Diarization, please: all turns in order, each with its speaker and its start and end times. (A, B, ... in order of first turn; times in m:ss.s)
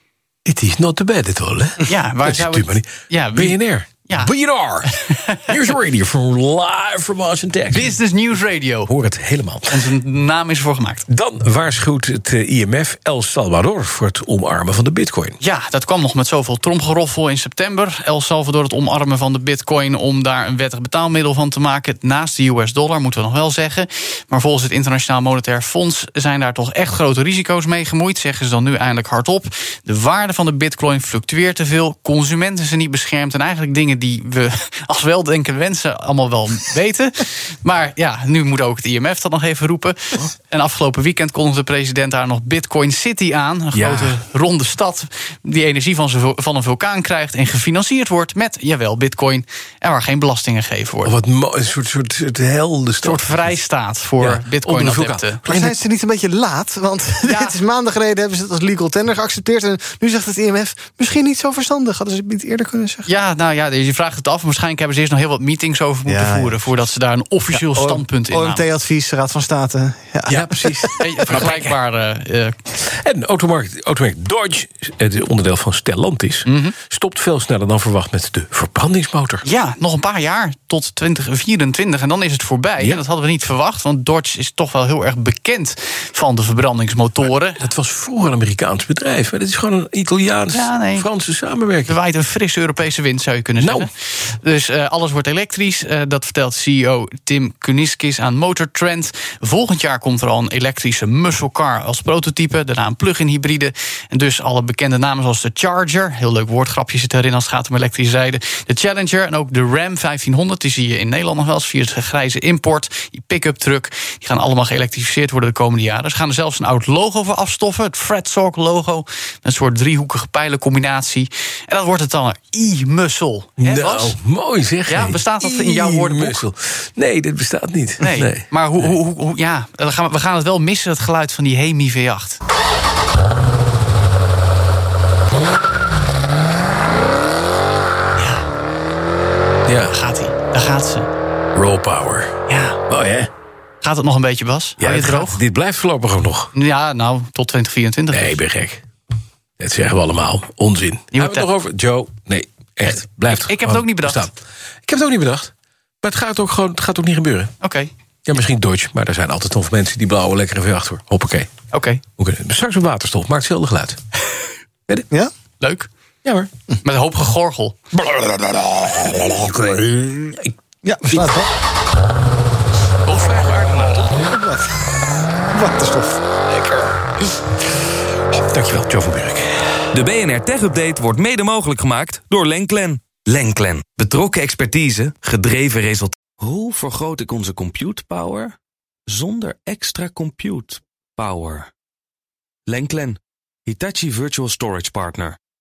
0:00.5-0:08.0 A
0:01.8-0:04.3 B
0:04.9-0:05.4 B
0:07.7-0:08.9 B
0:08.8-0:09.9 A
0:09.7-0:11.1 B
0:11.1-0:15.4 A
0:15.4-0:51.2 B
0:43.7-0:44.2 A
0:51.0-0:53.6 A
0:53.0-0:55.4 B
0:54.2-0:55.8 A
0:55.4-1:03.1 C
0:57.2-0:57.6 B
1:03.1-1:08.7 B
1:06.1-1:06.6 C
1:07.5-1:11.3 C
1:10.3-1:11.7 A
1:11.0-1:12.6 B
1:12.8-1:19.4 A
1:16.5-1:16.8 B
1:19.4-1:27.7 B
1:27.6-1:32.0 A
1:30.5-1:31.1 B
1:31.9-2:04.2 B
1:33.6-1:33.9 A
2:03.6-2:08.9 A
2:04.9-2:06.4 B
2:08.0-2:12.4 B
2:18.2-2:18.5 B
2:19.7-2:20.0 A
2:19.9-2:21.1 B
2:21.6-2:22.4 A
2:22.5-2:22.8 B
2:22.9-2:23.3 A
2:23.8-2:25.4 B
2:24.8-2:26.5 A
2:26.5-2:28.4 B
2:28.1-2:28.8 A
2:29.6-2:34.3 A
2:31.1-2:31.5 B
2:32.9-2:34.3 B
2:34.9-2:37.5 A
2:37.6-2:37.9 B
2:38.3-2:41.5 A
2:41.7-2:42.0 B
2:42.2-2:44.0 A
2:45.6-2:45.9 B
2:46.8-2:47.8 B
2:48.1-2:49.3 C
2:49.2-2:50.5 A
2:50.8-2:51.5 C
2:51.1-2:51.4 A
2:53.1-2:54.0 B
2:54.1-2:54.9 C
2:55.5-2:56.2 C
2:58.5-2:59.8 A
2:59.9-3:05.0 D
3:03.9-3:04.3 B
3:04.9-3:06.2 B
3:06.4-3:08.5 D
3:09.1-3:11.7 D
3:12.7-3:15.4 D